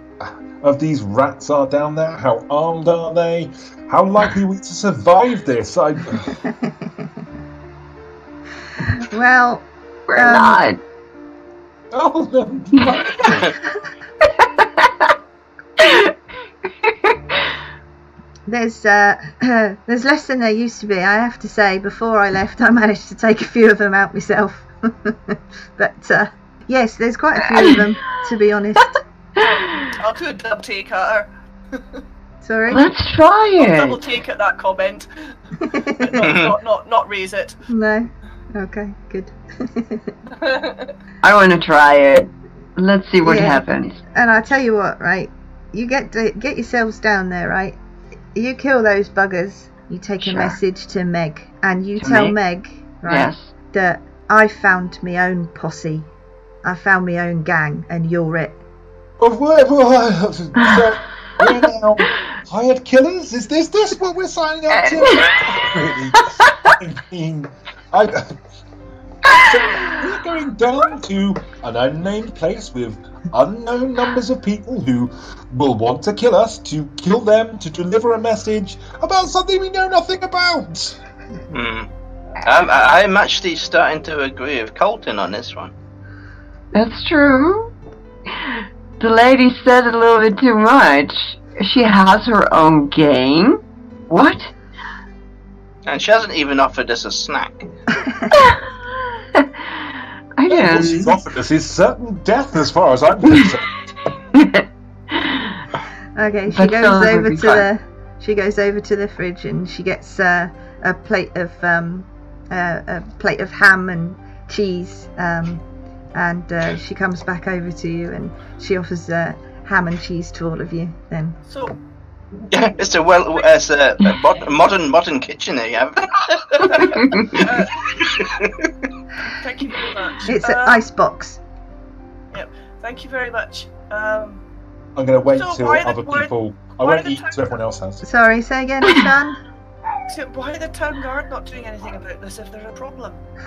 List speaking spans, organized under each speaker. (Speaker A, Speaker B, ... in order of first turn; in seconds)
Speaker A: 0.2-6.4, 11.9-13.5, 59.2-68.3, 69.3-81.0, 100.5-103.8, 134.9-138.0
Speaker B: 8.8-10.6, 18.5-29.0, 32.4-32.8, 35.6-36.1, 37.7-40.1, 43.2-43.6, 44.1-47.8, 48.3-56.1, 56.6-58.6, 98.0-98.3, 106.2-121.4, 130.3-131.4, 138.0-139.4
Speaker C: 10.1-10.8, 14.4-15.1, 15.8-16.1, 16.8-17.1, 27.4-27.9, 29.4-29.9, 32.7-34.0, 41.2-44.0, 50.2-50.6, 52.0-52.3, 53.0-53.5, 64.7-65.6, 66.4-66.7, 69.2-70.0, 86.7-87.7, 88.3-94.5, 98.3-101.1, 104.3-105.5, 106.5-107.7, 126.7-127.5
Speaker D: 29.9-32.0, 33.6-35.3, 35.9-37.6, 40.3-40.9, 121.5-121.8, 126.5-128.0, 129.3-130.8, 132.3-134.4, 135.3-137.5, 140.1-143.2
Speaker E: 36.2-36.5, 81.5-81.9, 82.4-85.7, 95.9-97.7, 122.5-128.7